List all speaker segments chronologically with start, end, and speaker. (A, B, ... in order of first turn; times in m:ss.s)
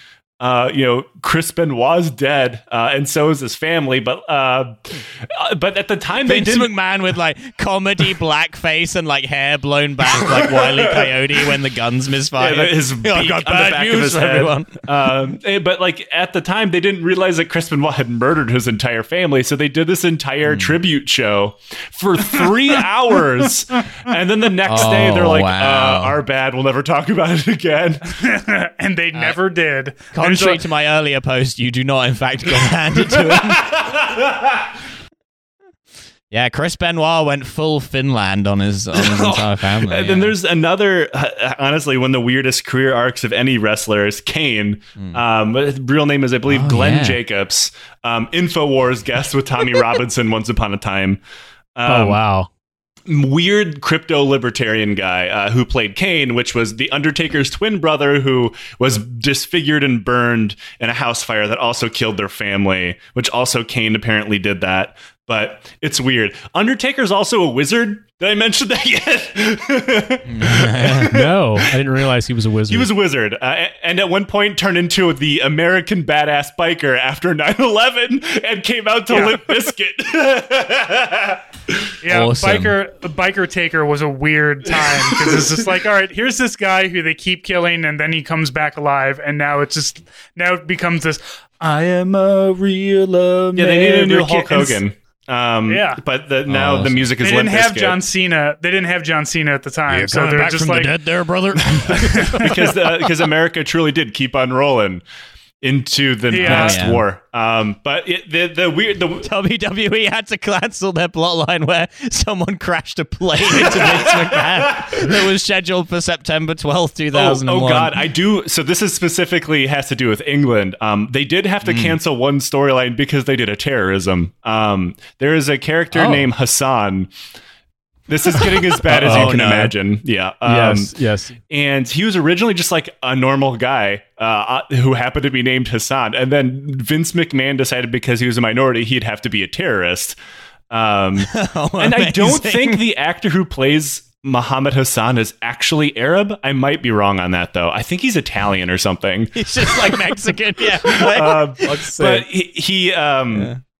0:00.4-0:06.7 A
0:06.2-0:15.1 B
0:10.5-0:11.1 A
0:12.4-0:28.1 A
0:20.4-0:20.8 B
0:24.6-0:26.2 B
0:28.2-0:30.6 C
0:30.1-0:33.7 B
0:33.1-0:34.5 A
0:36.3-0:40.4 B
0:38.9-0:51.2 A
0:46.5-0:47.2 B
0:51.8-0:52.2 A
0:51.9-0:52.5 D
0:53.1-1:11.6 A
1:10.3-1:11.1 B
1:11.1-1:12.9 D
1:12.7-1:21.4 A
1:19.1-1:19.4 C
1:22.0-1:34.8 C
1:22.1-1:22.8 B
1:25.0-1:25.5 A
1:33.6-1:38.0 A
1:35.7-1:36.0 C
1:36.5-1:37.1 B
1:37.2-1:41.0 C
1:39.9-1:42.7 B
1:42.0-1:42.5 C
1:42.4-1:45.0 A
1:45.6-1:49.3 A
1:46.3-1:46.8 C
1:46.4-1:47.0 B
1:49.2-1:58.0 B
1:53.7-1:54.1 A
1:57.1-2:07.1 A
2:01.6-2:02.0 B
2:05.9-2:06.3 B
2:08.1-2:10.9 A
2:08.9-2:09.7 B
2:08.9-2:09.4 D
2:10.4-2:11.4 D
2:11.5-2:20.2 A
2:20.7-2:30.0 A
2:21.2-2:22.8 B
2:29.3-2:32.2 B
2:30.8-2:33.5 A
2:33.3-2:33.6 B